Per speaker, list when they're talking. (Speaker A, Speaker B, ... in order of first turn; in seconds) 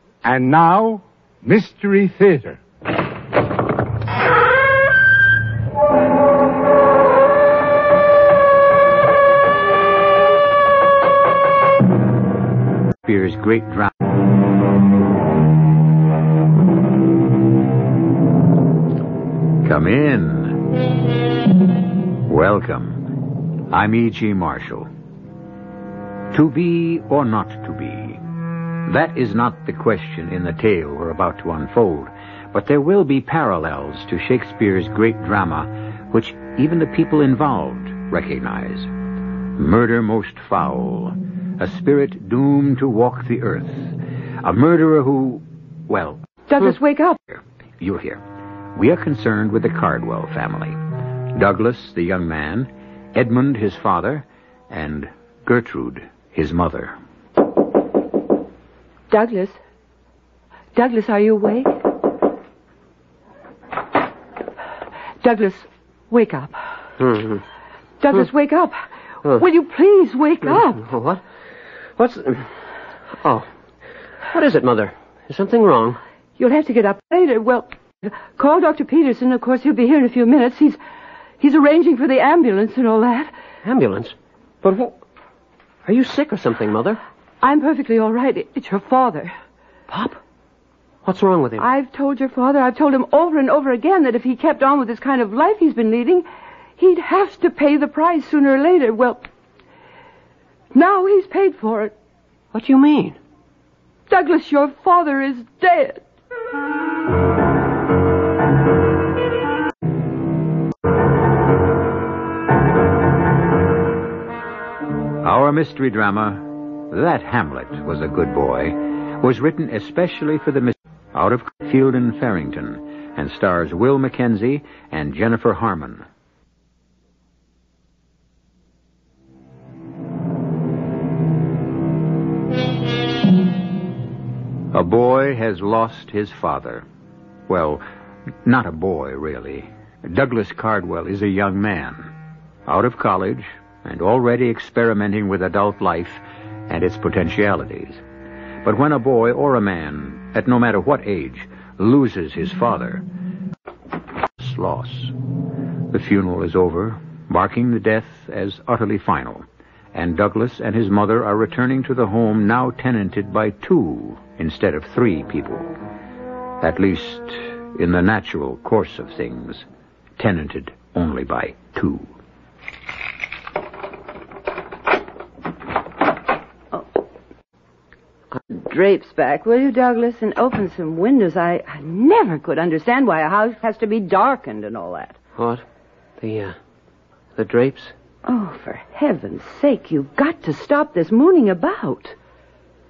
Speaker A: 0.2-2.6
Speaker B: 13.0-13.9, 19.6-20.6, 22.2-23.1, 23.7-24.9, 26.3-28.2, 28.9-38.9, 39.5-46.2, 47.3-48.2, 48.7-50.8, 51.3-57.0, 115.2-126.0, 134.7-136.8, 137.5-137.8, 138.4-142.1, 142.7-148.0, 148.6-153.0, 154.4-155.2, 155.9-165.7, 166.6-169.7, 170.2-172.1
Speaker C: 46.5-47.2, 59.1-59.6, 60.7-61.7, 65.2-66.5, 68.0-70.8, 76.4-80.8, 81.4-83.3, 87.4-89.3, 91.6-96.2, 96.8-99.2, 100.7-101.9, 104.1-106.0, 178.5-185.2, 188.2-192.2
Speaker D: 67.0-67.4, 70.5-71.2, 72.0-72.6, 73.2-73.5, 74.3-76.0, 83.6-85.0, 85.8-87.0, 89.9-90.2, 91.0-91.7, 102.5-103.2, 185.4-185.6, 186.2-186.6, 187.3-187.9